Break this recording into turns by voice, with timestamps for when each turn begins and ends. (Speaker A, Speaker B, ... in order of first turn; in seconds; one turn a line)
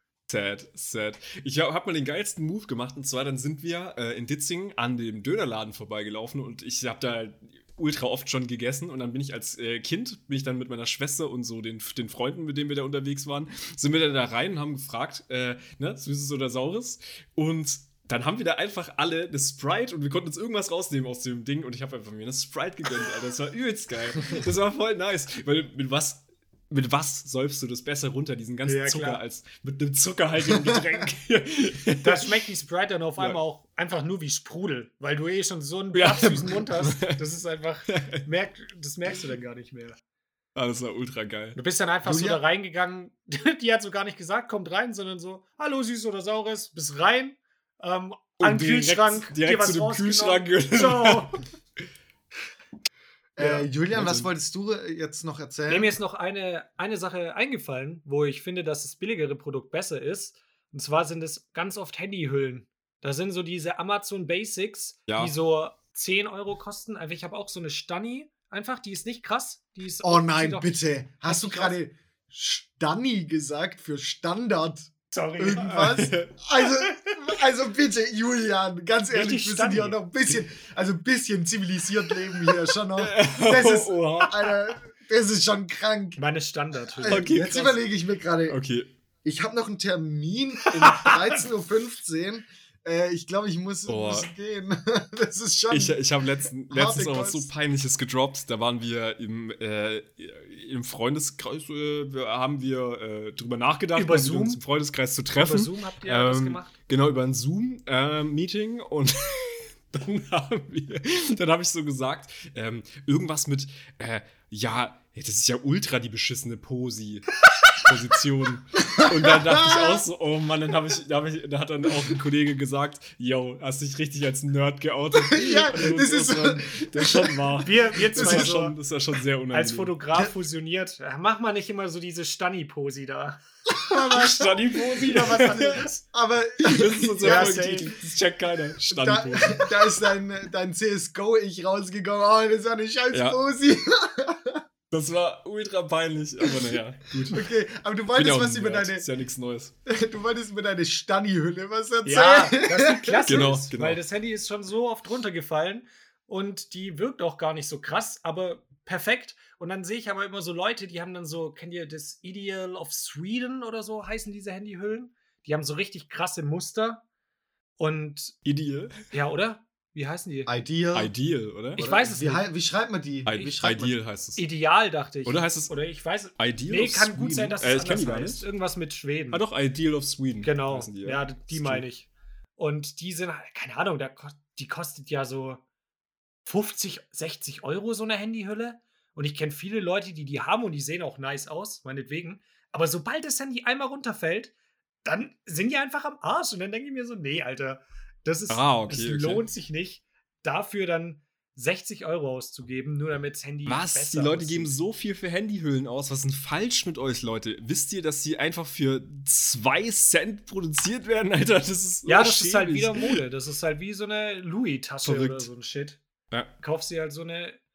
Speaker A: 0.3-32.3
Speaker B: 28.6-29.2
Speaker C: 30.6-31.1
Speaker B: 32.0-40.0
Speaker A: 35.9-37.2
Speaker A: 37.9-38.2
Speaker A: 40.5-41.6
Speaker B: 41.5-51.4
Speaker C: 42.0-42.4
Speaker A: 48.4-51.4
Speaker C: 53.4-55.9
Speaker B: 53.4-53.7
Speaker A: 53.9-54.3
Speaker B: 55.7-71.8
Speaker A: 65.1-65.3
Speaker C: 70.0-86.2
Speaker B: 75.1-75.9
Speaker A: 75.6-76.3
Speaker B: 76.7-77.1
Speaker B: 79.1-80.0
Speaker A: 83.0-84.3
Speaker B: 86.2-87.3
Speaker C: 86.9-88.6
Speaker A: 87.0-87.8
Speaker A: 88.5-88.9
Speaker C: 89.2-96.0
Speaker B: 90.7-91.3
Speaker A: 93.9-94.3
Speaker A: 95.7-129.9
Speaker C: 96.6-97.5
Speaker B: 104.0-104.6
Speaker B: 105.3-106.7
Speaker C: 119.0-120.0
Speaker C: 125.2-127.4
Speaker B: 127.6-128.7
Speaker C: 128.1-128.6
Speaker B: 129.5-133.4
Speaker C: 133.8-137.9
Speaker A: 134.1-135.8
Speaker B: 134.8-136.0
Speaker A: 136.6-139.7
Speaker B: 137.2-137.9
Speaker C: 138.9-144.6
Speaker A: 143.1-143.4
Speaker A: 144.9-147.4
Speaker C: 147.3-149.1
Speaker A: 148.1-149.7
Speaker C: 149.8-153.4
Speaker B: 152.0-167.0
Speaker A: 153.2-154.0
Speaker B: 167.8-168.4
Speaker A: 168.4-168.9
Speaker B: 169.1-170.6
Speaker C: 170.5-171.1
Speaker A: 170.9-171.8
Speaker B: 171.8-172.5
Speaker C: 171.8-173.9
Speaker A: 173.2-174.4
Speaker B: 174.3-179.4
Speaker A: 175.2-175.7
Speaker A: 176.4-178.4
Speaker A: 179.3-181.8
Speaker B: 180.4-185.6
Speaker B: 186.4-194.5
Speaker B: 195.0-204.7
Speaker A: 198.5-199.4
Speaker A: 203.7-213.2
Speaker B: 212.1-216.0
Speaker A: 215.0-215.5
Speaker B: 216.6-217.6